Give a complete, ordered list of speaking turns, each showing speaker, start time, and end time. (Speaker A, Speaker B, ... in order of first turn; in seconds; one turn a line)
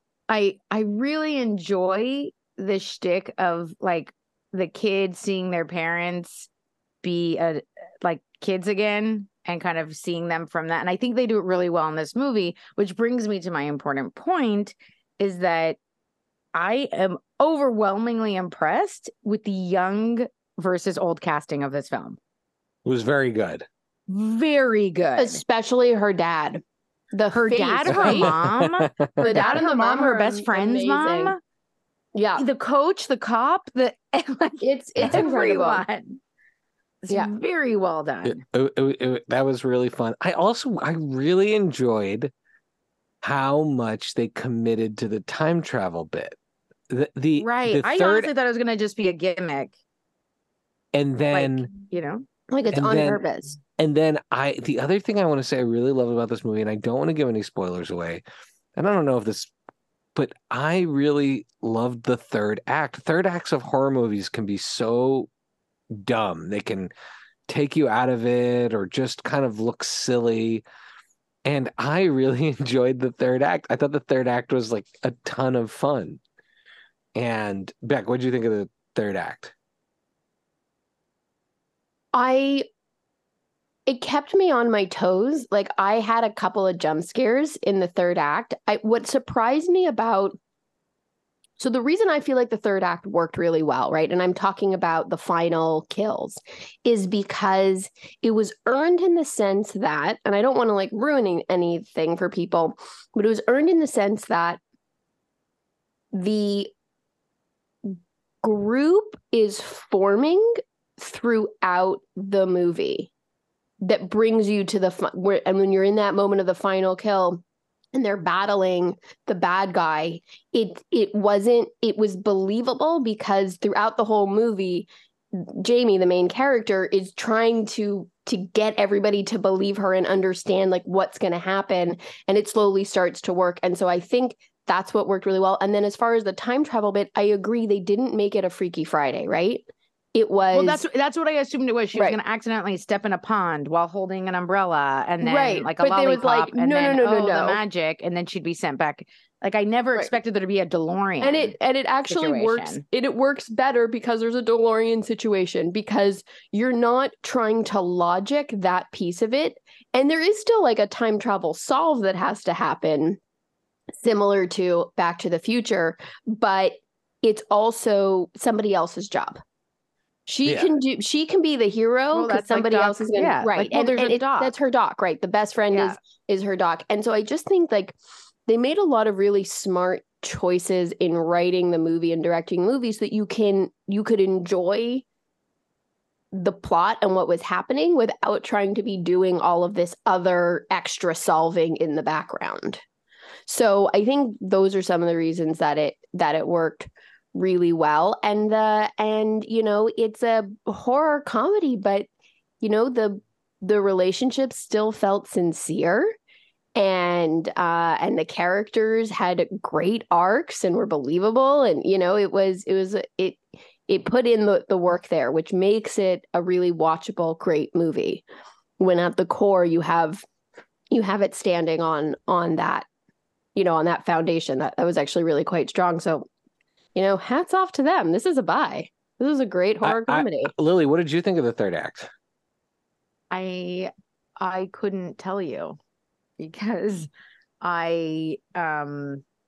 Speaker A: 0.3-6.5
Speaker A: 7.0-15.8
Speaker A: 16.5-22.2
Speaker B: 22.9-23.7
Speaker A: 24.1-25.4
Speaker C: 25.2-28.4
Speaker A: 27.3-31.4
Speaker B: 27.9-29.6
Speaker C: 29.2-31.4
Speaker C: 32.1-32.5
Speaker A: 32.4-36.2
Speaker C: 34.6-35.9
Speaker A: 37.0-38.4
Speaker B: 38.2-42.3
Speaker B: 43.2-46.4
Speaker B: 46.9-48.3
Speaker A: 47.4-49.8
Speaker B: 50.9-51.7
Speaker A: 51.3-53.5
Speaker C: 52.5-53.6
Speaker B: 52.7-53.2
Speaker B: 53.8-58.2
Speaker B: 58.8-59.5
Speaker B: 60.1-65.3
Speaker B: 65.9-66.9
Speaker B: 67.5-70.6
Speaker B: 71.5-76.2
Speaker B: 77.2-79.5
Speaker C: 82.1-82.7
Speaker C: 83.9-90.4
Speaker C: 91.6-104.6
Speaker C: 106.1-106.7
Speaker C: 107.8-113.1
Speaker C: 113.8-117.4
Speaker C: 117.9-140.8
Speaker A: 140.5-151.6
Speaker C: 145.2-147.6
Speaker C: 151.2-163.2
Speaker A: 152.1-152.8
Speaker C: 164.0-169.4
Speaker C: 170.3-177.9
Speaker B: 170.4-170.7
Speaker A: 172.1-174.5
Speaker A: 175.7-176.0
Speaker C: 178.5-185.1
Speaker C: 186.3-192.8
Speaker C: 193.5-202.1
Speaker C: 202.6-206.1
Speaker C: 206.8-218.2
Speaker C: 218.8-220.2
Speaker C: 220.9-222.9
Speaker C: 223.6-226.3
Speaker C: 226.9-230.5
Speaker B: 229.8-232.1
Speaker A: 233.3-235.8
Speaker A: 236.4-237.1
Speaker A: 237.6-239.2